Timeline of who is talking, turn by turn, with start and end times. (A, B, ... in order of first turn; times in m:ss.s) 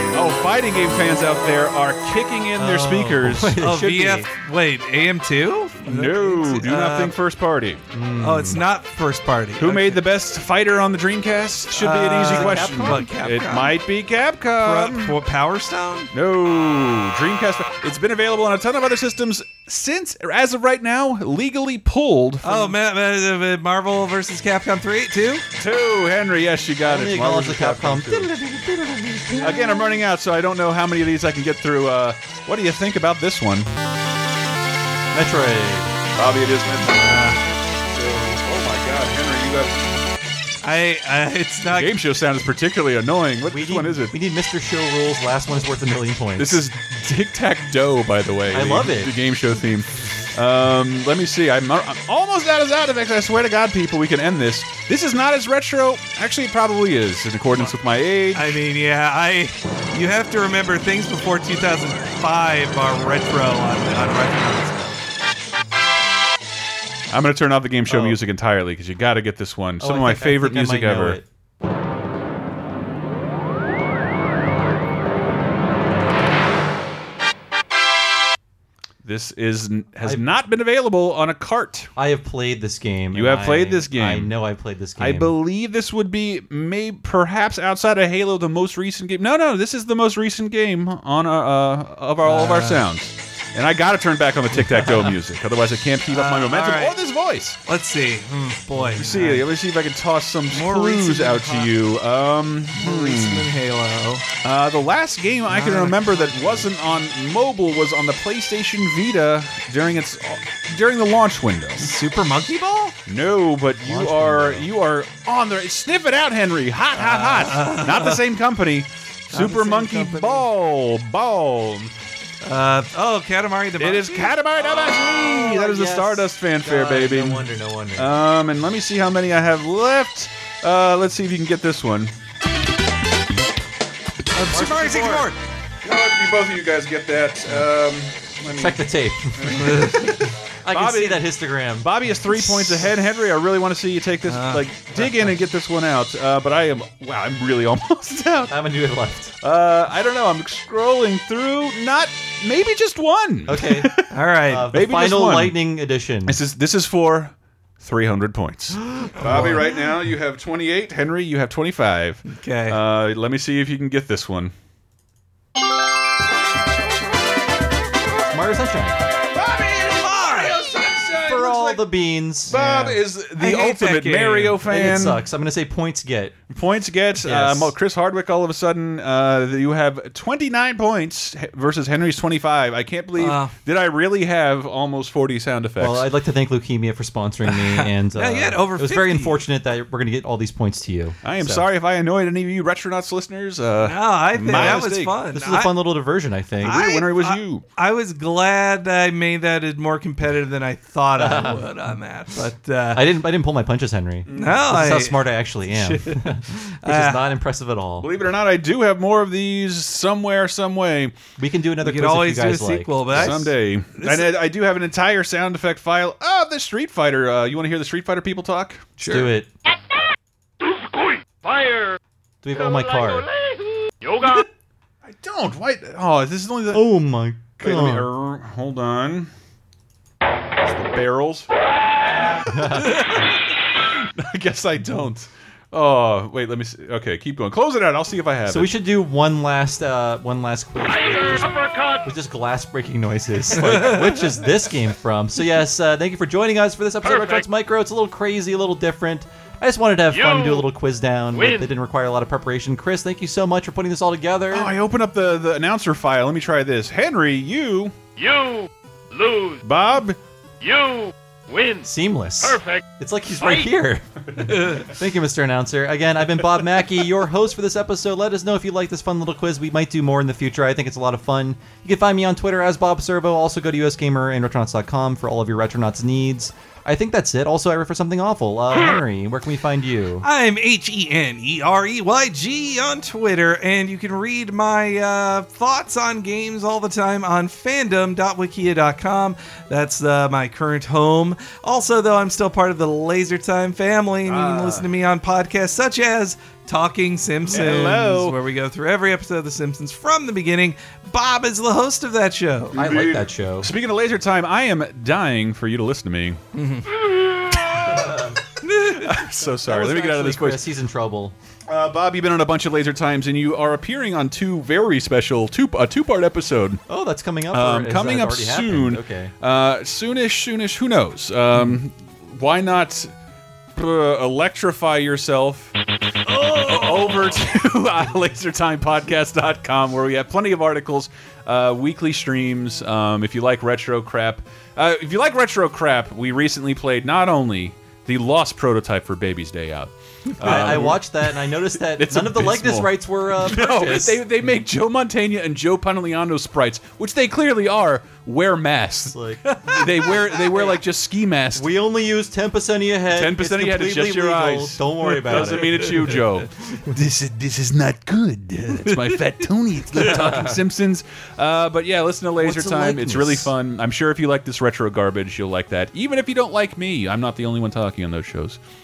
0:00.1-0:03.7 A
0:02.6-0:04.2 B
0:03.6-0:07.1 C
0:05.8-0:07.8 A
0:07.9-0:08.6 B
0:08.2-0:10.0 C
0:09.6-0:15.2 A
0:11.7-0:13.8 C
0:12.2-0:13.1 B
0:14.6-0:16.1 C
0:16.1-0:22.7 A
0:22.4-0:25.4 C
0:25.6-0:28.3 A
0:26.8-0:29.8 B
0:29.3-0:29.6 C
0:29.4-0:33.7 A
0:35.1-0:35.9 B
0:36.2-0:39.9 A
0:37.0-0:37.4 C
0:40.6-0:41.9 C
0:41.7-0:44.1 A
0:43.5-0:46.6 B
0:46.4-0:58.6 A
0:48.5-0:49.1 B
0:58.3-1:05.1 C
1:07.1-1:11.2 A
1:07.9-1:08.2 B
1:09.8-1:11.2 B
1:19.0-1:21.9 A
1:22.0-1:25.4 B
1:23.1-1:24.3 A
1:25.0-1:37.6 A
1:32.2-1:32.8 C
1:36.1-1:37.0 C
1:37.6-1:39.5 C
1:38.8-1:43.5 A
1:40.5-1:41.7 C
1:42.7-1:44.2 C
1:44.4-1:51.9 A
1:45.5-1:46.6 C
1:51.8-1:52.9 C
1:53.0-2:01.9 A
1:53.8-1:54.7 B
1:56.9-1:58.2 C
1:59.3-2:00.5 C
2:02.4-2:04.4 C
2:03.8-2:12.1 A
2:04.6-2:08.1 B
2:14.3-2:15.4 C
2:14.5-2:15.3 B
2:15.8-2:28.5 A
2:18.5-2:20.1 B
2:19.5-2:20.3 C
2:20.6-2:21.9 B
2:22.4-2:22.8 C
2:24.2-2:24.7 C
2:28.5-2:29.3 B
2:29.4-2:34.1 A
2:33.5-2:33.9 B
2:34.1-2:34.7 C
2:34.5-2:36.4 B
2:34.7-2:35.6 A
2:36.2-2:44.5 A
2:39.0-2:39.7 B
2:39.2-2:39.7 C
2:42.2-2:42.8 C
2:48.3-2:49.0 B
2:49.3-2:51.9 A
2:50.0-2:50.6 C
2:51.2-2:52.6 B
2:52.4-2:55.2 A
2:52.5-2:54.7 C
2:54.6-2:56.4 B
2:56.5-3:06.1 A
2:57.2-2:57.7 B
3:03.2-3:03.5 C
3:05.8-3:11.6 B
3:07.4-3:09.5 C
3:11.2-3:15.2 A
3:13.8-3:15.7 C
3:14.5-3:16.8 B
3:16.6-3:17.6 A
3:16.6-3:23.0 C
3:21.2-3:21.6 B
3:22.9-3:28.1 B
3:24.3-3:24.6 A
3:24.3-3:27.2 C
3:28.0-3:31.1 A
3:31.4-3:33.5 B
3:31.8-3:34.3 C
3:33.1-3:39.0 A
3:39.0-3:39.5 B
3:40.6-3:42.0 D
3:42.4-3:43.3 B
3:42.6-3:44.5 D
3:45.0-3:47.0 A
3:46.7-3:48.1 B
3:47.6-3:49.3 A
3:50.6-3:51.5 A
3:52.2-3:53.3 A
3:52.5-3:53.0 B
3:52.8-3:53.2 C
3:53.9-3:58.7 A
3:58.4-4:14.7 B
4:01.0-4:02.0 D
4:03.6-4:04.1 C
4:07.0-4:07.4 D
4:10.1-4:10.7 D
4:11.3-4:11.7 D
4:14.5-4:17.9 A
4:18.2-4:19.6 D
4:19.6-4:20.2 A
4:20.6-4:22.8 D
4:21.8-4:40.2 B
4:23.4-4:23.7 D
4:24.4-4:24.8 A
4:40.2-5:02.7 C
4:54.3-4:54.9 A
4:57.5-4:58.4 A
5:02.7-5:06.4 A
5:02.7-5:03.7 B
5:06.5-5:07.0 C
5:07.4-5:08.2 A
5:07.8-5:08.4 B
5:08.6-5:09.2 C
5:08.9-5:10.7 A
5:09.6-5:11.3 B
5:11.7-5:16.8 A
5:16.9-5:19.3 B
5:17.5-5:23.1 A
5:23.8-5:25.7 A
5:26.3-5:51.7 A
5:26.6-5:27.0 C
5:40.4-5:44.2 B
5:40.4-5:41.0 C
5:49.1-5:50.8 B
5:49.4-5:50.0 C
5:51.6-5:56.0 B
5:53.1-6:08.6 A
5:55.3-5:56.1 C
5:58.7-5:59.2 C
5:59.9-6:00.3 C
6:02.4-6:03.5 B